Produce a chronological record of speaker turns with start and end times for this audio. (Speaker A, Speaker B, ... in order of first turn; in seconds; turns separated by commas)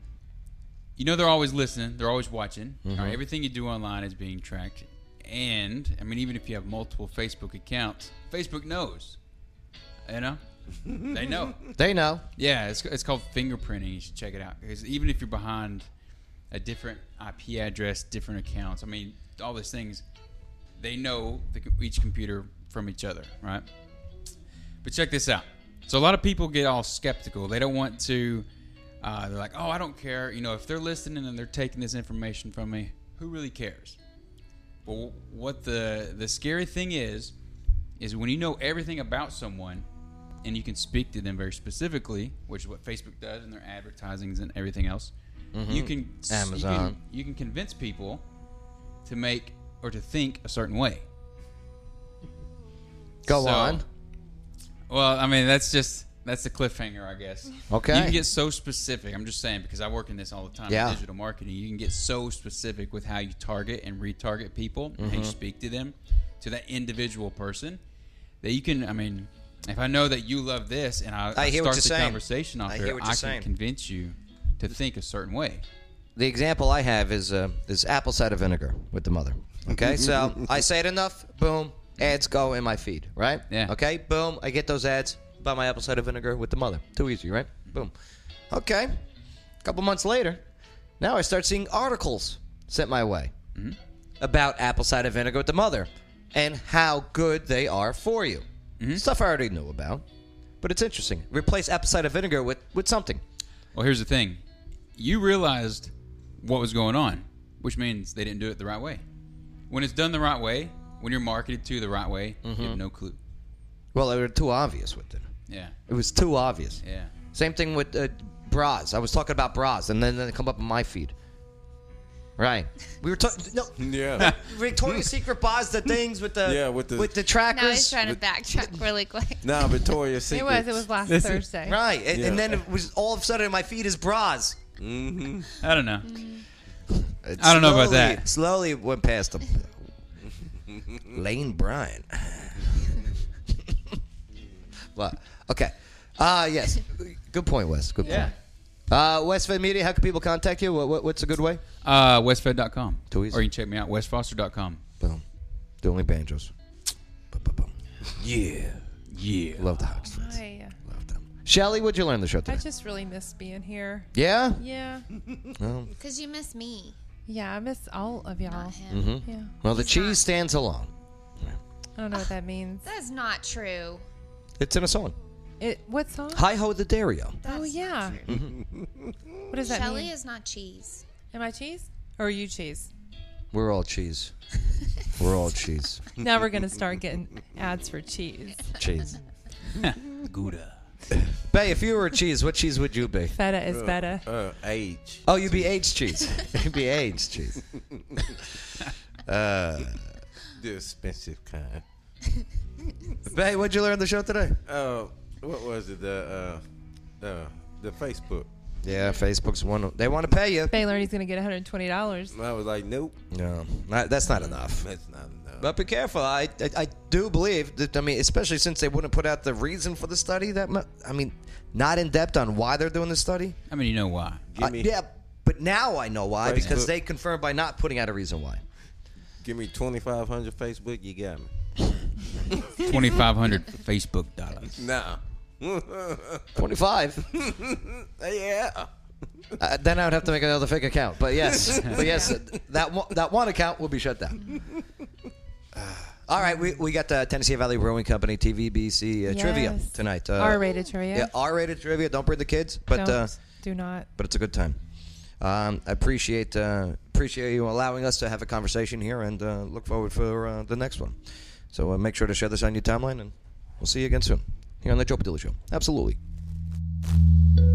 Speaker A: 1.0-9.2, Speaker B: 2.8-3.2, Speaker A: 10.0-11.7, Speaker C: 10.9-11.3, Speaker B: 11.8-12.2, Speaker A: 12.4-15.9, Speaker A: 16.5-20.0, Speaker A: 20.8-23.6, Speaker A: 24.8-28.4, Speaker A: 29.0-34.0, Speaker A: 34.9-37.3, Speaker A: 38.0-39.9, Speaker A: 40.4-45.1, Speaker B: 45.5-47.0, Speaker A: 45.7-48.2, Speaker A: 49.0-51.0, Speaker A: 53.2-53.8, Speaker B: 53.2-53.8, Speaker A: 54.9-67.8, Speaker B: 57.7-58.2, Speaker B: 60.7-61.0, Speaker B: 65.0-65.3, Speaker A: 68.4-75.6, Speaker B: 71.3-73.5, Speaker B: 76.2-87.9, Speaker C: 79.8-80.3, Speaker B: 88.5-89.0, Speaker B: 89.6-90.4, Speaker B: 91.0-93.3, Speaker B: 94.2-100.0, Speaker A: 98.8-99.0, Speaker B: 100.6-103.2, Speaker A: 103.7-104.4, Speaker A: 105.0-109.0, Speaker A: 109.7-113.2, Speaker B: 112.4-112.8, Speaker B: 113.9-115.3, Speaker A: 115.5-115.7, Speaker B: 115.9-116.8, Speaker A: 116.8-117.1, Speaker B: 117.3-121.1, Speaker B: 122.4-128.0, Speaker C: 123.8-125.1, Speaker C: 126.4-127.2, Speaker D: 127.5-129.7, Speaker C: 129.4-130.9, Speaker E: 130.3-131.8, Speaker A: 131.1-131.4, Speaker B: 131.6-134.6, Speaker C: 132.1-132.6, Speaker C: 134.8-135.6, Speaker A: 135.6-136.2, Speaker D: 136.0-136.4, Speaker B: 136.9-139.7, Speaker A: 137.4-138.2, Speaker C: 140.7-141.0, Speaker B: 141.1-143.0, Speaker B: 144.9-148.3, Speaker D: 148.0-148.3, Speaker B: 148.9-151.6, Speaker A: 151.8-154.8, Speaker B: 153.1-153.4, Speaker B: 155.8-156.5, Speaker B: 157.3-158.8, Speaker A: 159.1-159.7, Speaker B: 159.6-162.6, Speaker E: 160.0-160.8, Speaker E: 162.4-165.1, Speaker B: 164.1-164.6, Speaker B: 165.6-165.9, Speaker D: 166.0-167.0, Speaker E: 167.3-169.5, Speaker D: 168.4-170.2, Speaker B: 168.9-170.9, Speaker E: 172.0-172.8, Speaker D: 172.8-174.0, Speaker B: 174.6-175.2, Speaker E: 175.6-176.4, Speaker B: 176.3-177.4, Speaker D: 177.4-178.3, Speaker E: 177.4-178.2, Speaker B: 178.3-178.6, Speaker C: 178.6-179.1, Speaker E: 179.5-180.1, Speaker D: 179.6-181.1, Speaker E: 181.3-182.9, Speaker B: 183.5-184.3, Speaker B: 185.2-186.0, Speaker E: 186.2-188.7, Speaker B: 188.8-189.2, Speaker A: 189.7-190.8, Speaker B: 191.3-193.3, Speaker E: 193.3-194.2, Speaker C: 193.7-195.8, Speaker B: 195.2-197.6, Speaker C: 197.7-198.2, Speaker B: 199.2-200.1, Speaker C: 200.5-201.8, Speaker B: 203.3-204.6, Speaker C: 204.7-206.6, Speaker C: 207.2-208.5, Speaker B: 208.8-210.8, Speaker D: 208.9-209.2, Speaker E: 210.7-212.3, Speaker C: 212.3-213.2, Speaker B: 213.3-214.8, Speaker C: 214.3-215.7, Speaker B: 215.6-223.6, Speaker A: 223.7-224.4, Speaker C: 224.5-224.9, Speaker B: 224.6-228.6, Speaker C: 226.4-226.9, Speaker C: 229.4-231.5, Speaker C: 232.5-232.9, Speaker A: 232.8-234.9, Speaker C: 234.7-236.6, Speaker B: 236.6-237.2, Speaker C: 237.3-238.9, Speaker B: 239.6-244.4, Speaker C: 241.4-242.3, Speaker E: 241.9-242.3, Speaker C: 244.5-244.8, Speaker B: 245.7-250.6, Speaker E: 249.2-251.3, Speaker B: 251.1-253.3, Speaker E: 252.9-254.1, Speaker B: 254.2-254.8, Speaker B: 255.4-261.2, Speaker B: 261.7-266.2